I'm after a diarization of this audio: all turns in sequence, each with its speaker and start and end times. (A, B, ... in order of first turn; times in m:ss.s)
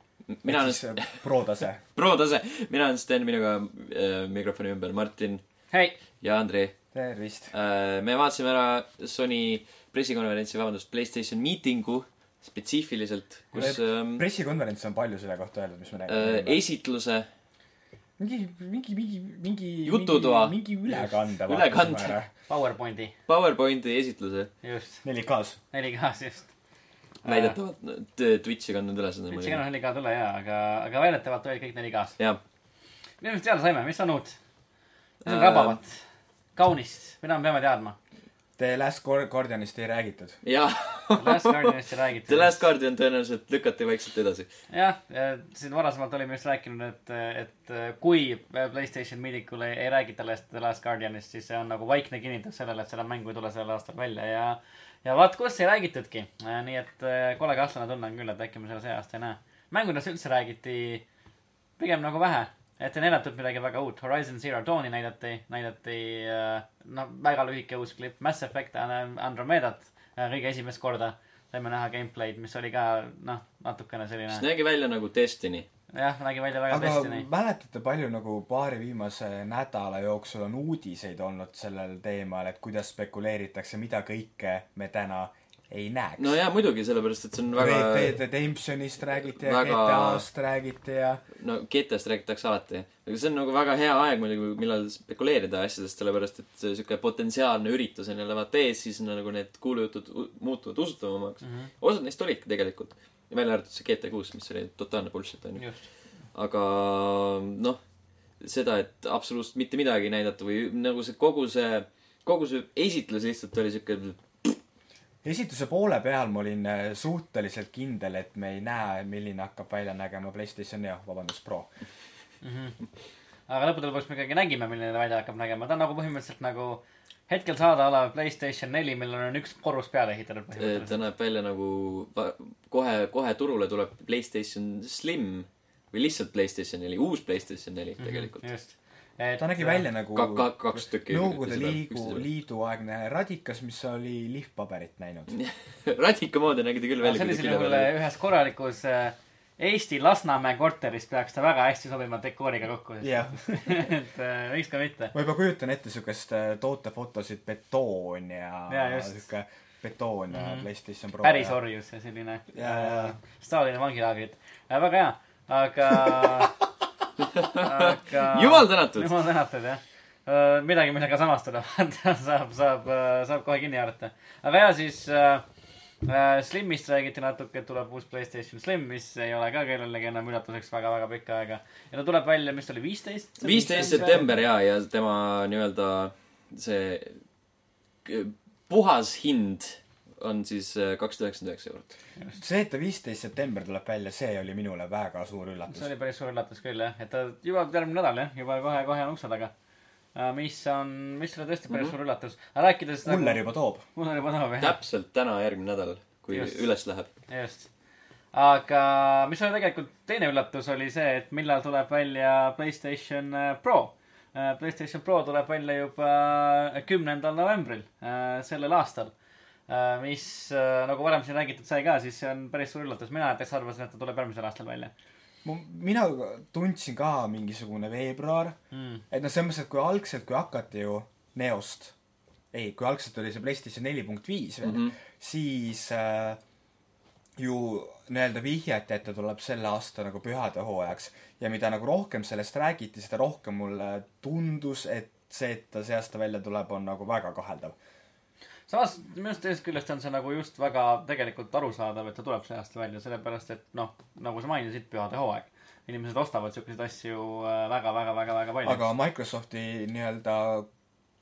0:00.3-0:01.2 A
0:00.4-0:01.8 B
0:01.9-0:05.4 A
0:05.7-0:06.0 C
0:06.2-0:06.7 A
0:06.9-0:07.5 B
0:07.5-0:14.2 A
0:13.5-0:16.6 B
0:16.1-0:17.3 A
0:18.2-0:22.3 B
0:19.8-0:22.2 A
0:22.5-0:23.1 C
0:23.3-0:24.5 A
0:24.6-0:25.0 C
0:25.0-0:25.6 B
0:25.7-0:26.5 C
0:27.2-0:29.6 A
0:27.2-0:27.6 C
0:29.3-0:32.2 C
0:33.2-0:34.4 C
0:35.2-0:35.8 A
0:35.2-0:36.0 C
0:36.6-0:38.0 C
0:38.6-0:40.4 B
0:40.4-0:41.7 A
0:41.2-0:42.6 C
0:42.3-0:44.5 A
0:44.7-1:01.0 C
1:01.8-1:14.4 C
1:14.3-1:15.6 A
1:15.9-1:17.3 C
1:16.7-1:26.4 B
1:26.2-1:28.2 A
1:27.5-1:31.2 B
1:29.4-1:30.3 A
1:31.4-1:45.6 A
1:41.4-1:41.7 C
1:45.6-1:45.8 C
1:46.3-1:47.8 A
1:48.4-1:54.6 A
1:55.2-2:01.7 B
2:02.4-2:02.8 C
2:03.5-2:11.0 C
2:10.5-2:18.5 A
2:18.0-2:19.9 C
2:19.4-2:25.3 B
2:20.1-2:22.3 A
2:25.3-2:27.9 A
2:27.0-2:35.1 C
2:33.0-2:33.9 B
2:35.1-2:41.6 B
2:38.7-2:39.2 C
2:40.3-2:40.7 C
2:41.2-2:46.6 C
2:42.5-2:43.2 B
2:47.3-2:49.1 A
2:47.5-2:55.4 C
2:56.0-3:04.3 C
3:03.4-3:07.2 A
3:03.9-3:04.3 B
3:08.0-3:12.0 A
3:12.3-3:15.9 B
3:15.7-3:19.5 C
3:20.1-3:24.8 C
3:21.7-3:21.9 A
3:23.0-3:23.8 B
3:24.6-3:27.1 A
3:26.3-3:26.6 C
3:27.3-3:27.7 C
3:28.3-3:39.1 C
3:39.7-3:44.9 C
3:45.4-3:48.6 B
3:48.7-3:49.0 C
3:49.1-3:51.9 B
3:52.5-3:56.4 B
3:54.6-3:54.9 A
3:57.4-4:07.7 B
4:08.7-4:18.8 C
4:18.6-4:20.7 B